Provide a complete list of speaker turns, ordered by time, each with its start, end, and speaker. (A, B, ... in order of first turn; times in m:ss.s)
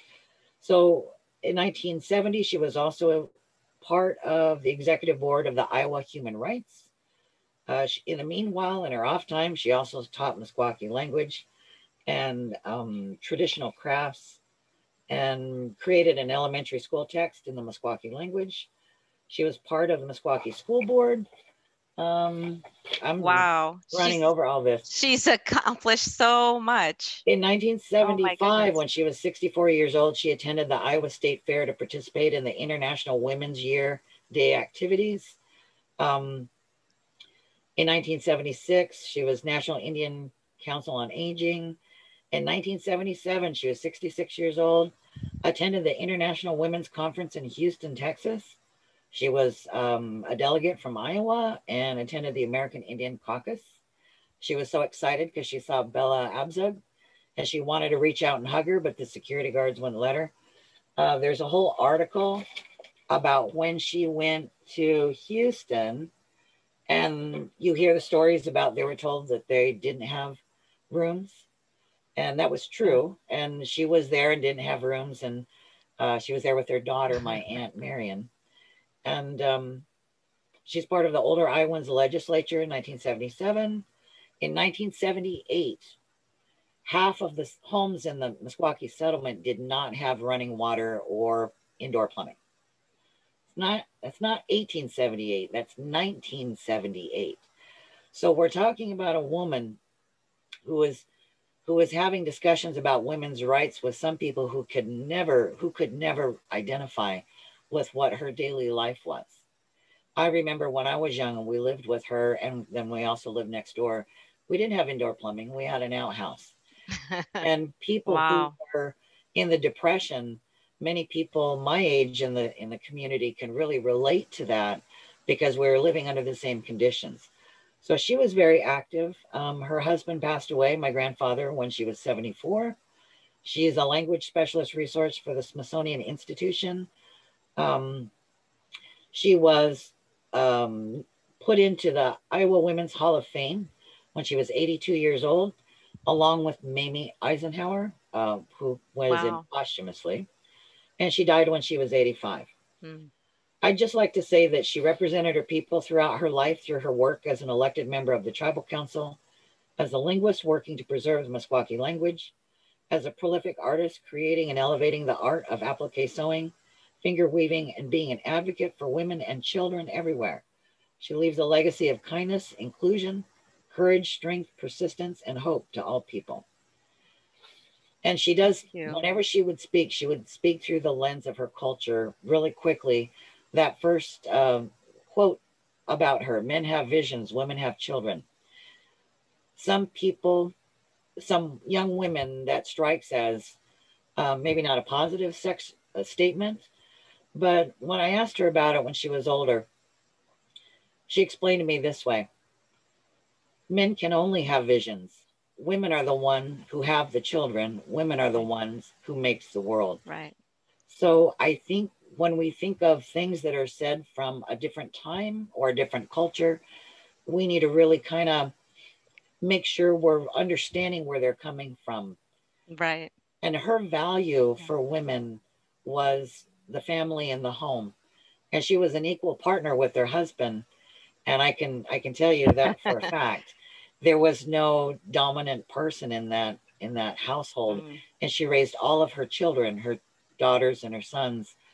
0:00.6-0:06.9 A
0:07.7-0:11.5 A
0:12.1-0:14.4 A
0:15.1-0:18.7 A
0:19.3-0:21.3 A
0:22.0-0:24.8 A
0:23.2-0:24.2 B
0:24.9-0:27.2 B
0:27.2-0:35.4 A
0:28.0-0:28.8 B
0:36.0-0:36.5 A
0:37.8-0:41.8 A
0:42.3-0:44.9 A
0:45.4-0:48.6 A
0:49.1-0:53.7 A
0:54.4-0:56.8 A
0:57.4-1:00.3 A
1:01.0-1:02.4 A
1:03.1-1:06.1 A
1:06.9-1:11.4 A
1:12.2-1:15.5 A
1:16.0-1:18.3 A
1:19.0-1:19.8 A
1:20.6-1:23.8 A
1:24.4-1:26.0 A
1:26.8-1:32.4 A
1:33.5-1:37.4 A
1:38.1-1:39.8 A
1:40.6-1:41.0 A
1:41.6-1:49.4 A
1:50.2-1:56.5 A
1:57.1-1:57.5 B
1:57.4-2:07.3 A
1:58.1-1:58.5 B
2:07.8-2:12.8 A
2:13.4-2:16.9 A
2:17.6-2:18.1 A
2:19.1-2:25.5 A
2:26.0-2:30.3 A
2:29.1-2:29.4 B
2:31.0-2:32.5 A
2:32.8-2:33.1 B
2:33.6-2:39.2 A
2:39.8-2:42.3 A
2:42.9-2:50.4 A
2:51.0-2:56.4 A
2:58.0-3:08.2 A
2:58.6-2:59.0 B
3:09.6-3:10.5 A
3:11.2-3:13.6 A
3:14.2-3:16.7 A
3:17.3-3:19.7 A
3:21.1-3:22.3 A
3:23.7-3:30.0 A
3:30.0-3:30.3 B
3:30.9-3:36.6 A
3:37.2-3:38.5 A
3:39.4-3:42.2 A
3:42.7-3:43.1 B
3:43.4-3:47.9 A
3:48.5-3:50.6 A
3:51.2-4:01.5 A
3:57.7-3:58.0 B